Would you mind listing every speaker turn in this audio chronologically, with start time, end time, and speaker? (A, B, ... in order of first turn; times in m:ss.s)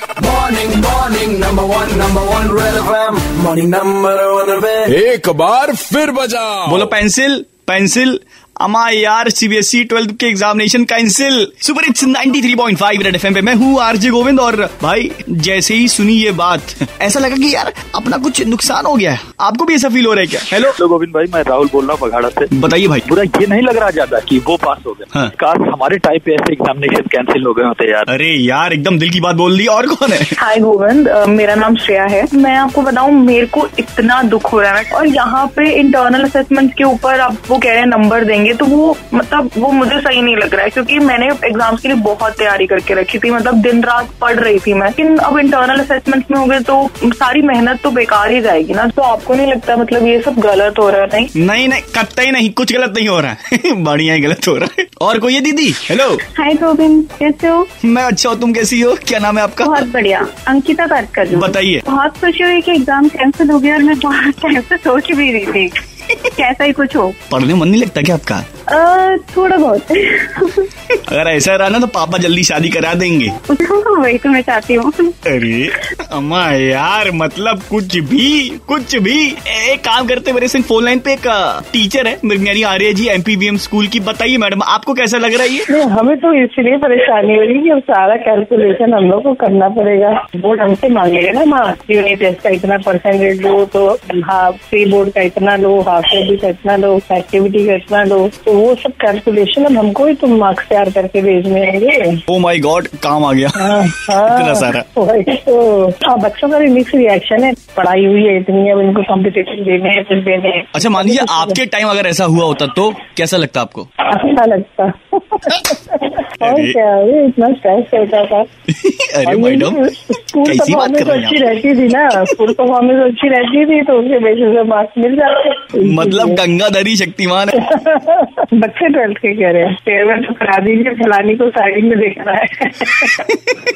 0:00.2-0:04.9 A
0:04.8-0:06.9 B
0:06.6-0:20.7 C
0:20.8-0:22.5 D
0:22.5-0:23.0 C
0:23.0-0:28.1 D
0:28.1-0:30.3 C
0:30.4-0:51.3 E
0:51.4-0:56.2 C
0:56.4-0:57.7 F
0:57.8-0:59.9 C
0:59.6-1:07.2 F
1:01.3-1:01.8 C
1:07.3-1:08.5 C
1:08.7-1:10.7 F
1:11.1-1:13.4 C
1:13.5-1:15.1 F
1:15.3-1:25.7 C
1:25.7-1:42.2 G
1:42.3-1:43.6 C
1:43.6-1:51.6 G
1:44.1-1:44.8 C
1:50.7-1:53.9 C
1:54.1-1:58.5 G
1:56.4-1:56.8 C
1:58.7-1:59.8 C
1:59.2-2:06.4 G
2:00.4-2:01.4 C
2:05.8-2:07.6 C
2:07.6-2:13.2 G